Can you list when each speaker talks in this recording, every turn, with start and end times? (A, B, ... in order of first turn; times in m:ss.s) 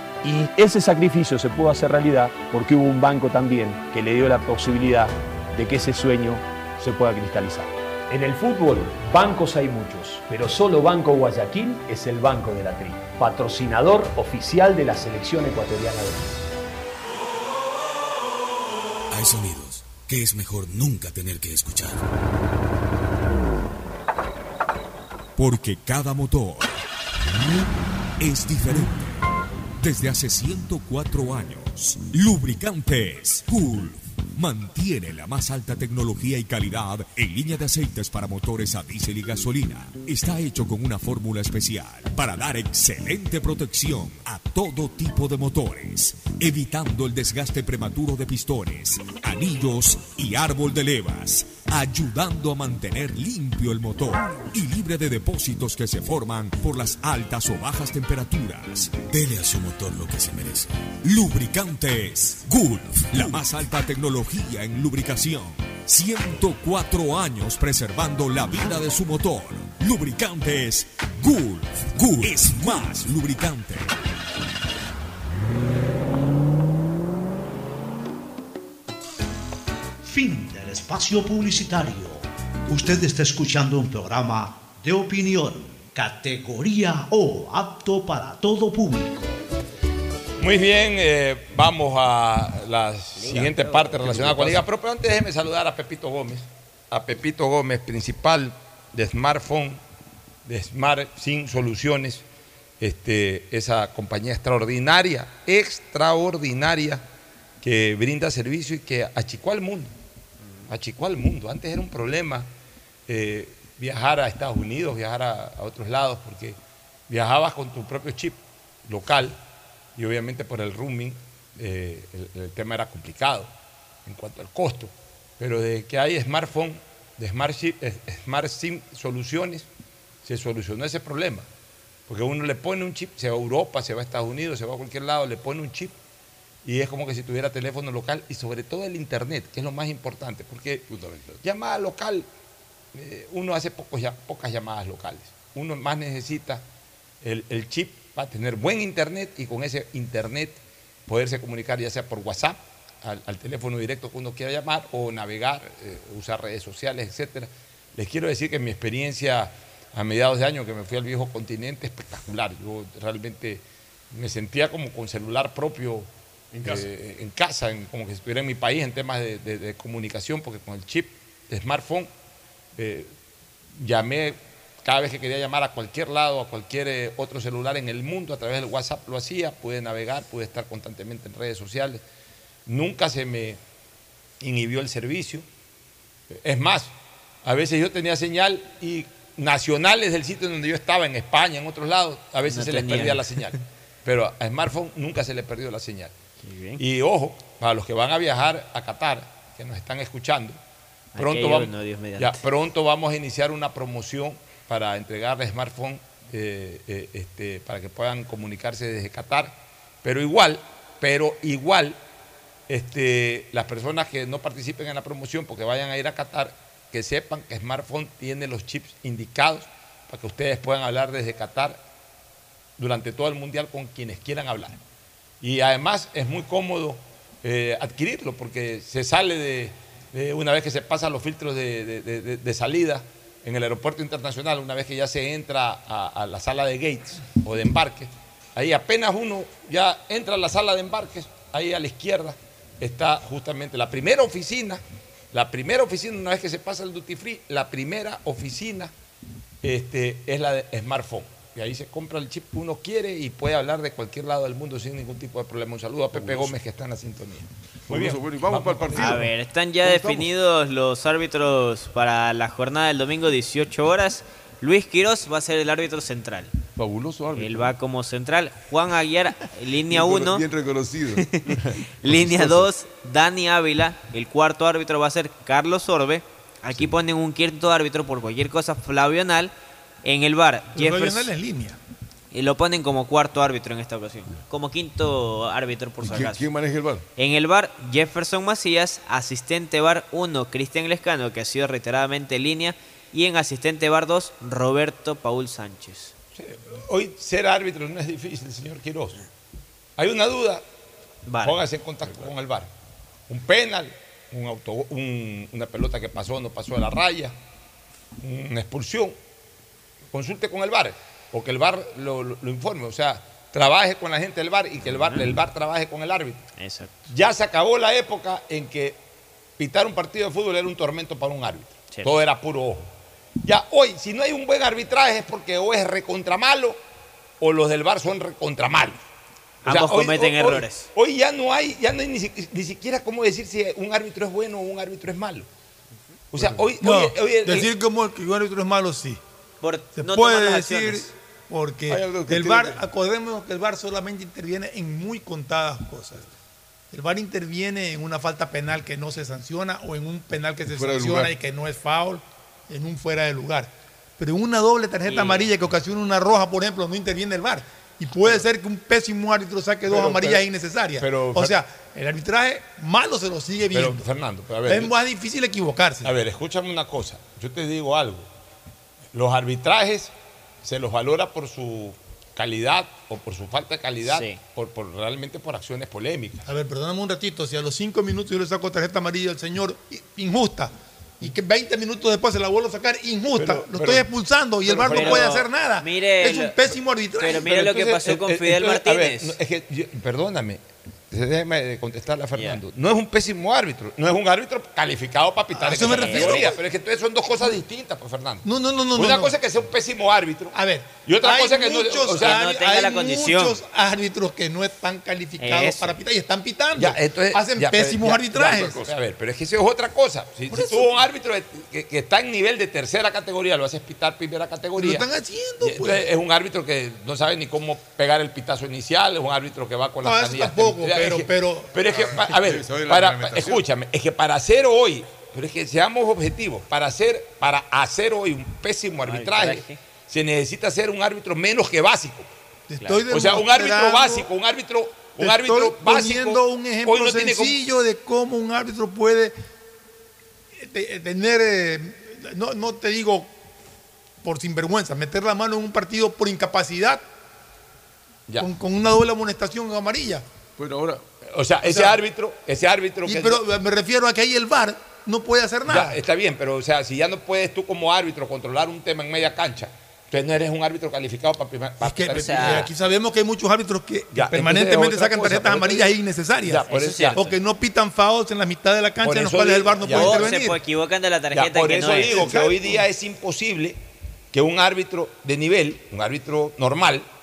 0:00.2-0:16.5 A
0:19.1-0:22.1 B
0:25.4-0:26.8 B
0:28.2-0:29.2 B
0:29.8-1:13.9 B
1:20.0-1:29.3 C
1:30.4-1:39.8 D
1:33.3-1:34.6 E
1:40.4-1:42.2 D
1:42.8-1:47.0 D
1:47.6-1:49.9 D
1:50.4-1:50.7 F
1:50.7-1:52.5 D
1:53.1-1:59.4 D
2:00.0-2:03.5 D
2:04.1-2:09.7 D
2:10.2-2:11.5 D
2:12.1-2:16.0 D
2:16.6-2:20.8 D
2:20.9-2:21.4 E
2:21.4-2:22.3 D
2:22.9-2:26.6 D
2:27.2-2:46.1 D
2:46.6-2:46.9 E
2:46.6-2:52.1 D
2:52.8-2:53.1 D
2:53.7-3:02.0 D
3:02.7-3:03.6 D
3:04.4-3:05.5 D
3:06.3-3:06.9 D
3:07.4-3:16.1 D
3:12.4-3:13.3 F
3:16.4-3:16.8 F
3:16.8-3:20.6 D
3:21.1-3:22.4 F
3:21.2-3:32.0 D
3:32.7-3:41.8 D
3:42.8-3:44.8 D
3:45.4-4:08.9 D
4:09.6-4:19.2 D
4:16.1-4:16.5 E
4:17.9-4:20.3 E
4:18.9-4:26.5 F
4:26.8-4:27.7 E
4:27.4-4:30.4 F
4:29.9-4:32.6 E
4:31.2-4:39.5 F
4:40.0-4:41.3 F
4:40.7-4:41.8 G
4:42.3-4:46.5 F
4:46.0-4:47.0 E
4:47.2-4:56.1 F
4:56.4-4:59.2 D
5:00.0-5:00.6 D
5:01.3-5:01.6 F
5:01.4-5:02.7 D
5:03.3-5:07.4 D
5:08.2-5:09.2 D
5:10.1-5:16.4 D
5:14.8-5:15.2 F
5:16.6-5:17.0 F
5:17.1-5:19.0 D
5:19.6-5:22.9 D
5:23.4-5:26.8 D
5:27.4-5:29.1 D
5:29.6-5:30.9 F
5:29.6-5:35.5 D
5:36.3-5:37.7 D
5:36.8-5:39.2 G
5:39.6-5:41.1 F
5:39.9-5:46.3 G
5:41.9-5:42.8 E
5:46.9-6:04.1 G
5:50.7-5:51.3 E
5:55.0-5:55.5 F
5:59.9-6:00.4 E
6:01.0-6:01.6 D
6:03.7-6:04.9 D
6:04.6-6:06.1 G
6:06.0-6:08.3 D
6:09.1-6:16.5 D
6:14.0-6:14.4 F
6:16.5-6:27.5 G
6:23.4-6:24.1 D
6:24.6-6:25.3 D
6:24.8-6:26.6 F
6:27.2-6:29.4 F
6:27.4-6:40.6 D
6:32.3-6:32.6 F
6:35.5-6:36.5 G
6:35.8-6:36.4 F
6:38.4-6:39.4 G
6:40.5-6:48.9 G
6:41.1-6:42.4 D
6:42.1-6:43.6 F
6:45.4-6:46.0 F
6:46.8-6:55.1 D
6:50.5-6:50.9 G
6:54.8-6:56.0 G
6:55.6-7:12.3 D
7:00.0-7:02.6 G
7:01.9-7:03.6 E
7:09.0-7:09.8 F
7:12.7-7:14.3 G
7:13.1-7:17.6 D
7:15.2-7:19.4 G
7:20.6-7:23.3 G
7:24.2-7:27.0 G
7:28.4-7:30.3 G
7:30.6-7:31.0 E
7:31.2-7:33.4 D
7:31.6-7:32.0 G
7:33.0-7:36.0 G
7:35.7-7:42.7 D
7:41.8-7:50.6 G
7:42.1-7:42.7 F
7:44.1-7:45.9 D
7:46.4-7:47.3 D
7:46.7-7:47.2 F
7:49.0-7:50.3 D
7:49.8-7:52.4 F
7:51.3-7:53.8 D
7:52.0-7:52.8 G
7:54.3-7:57.1 D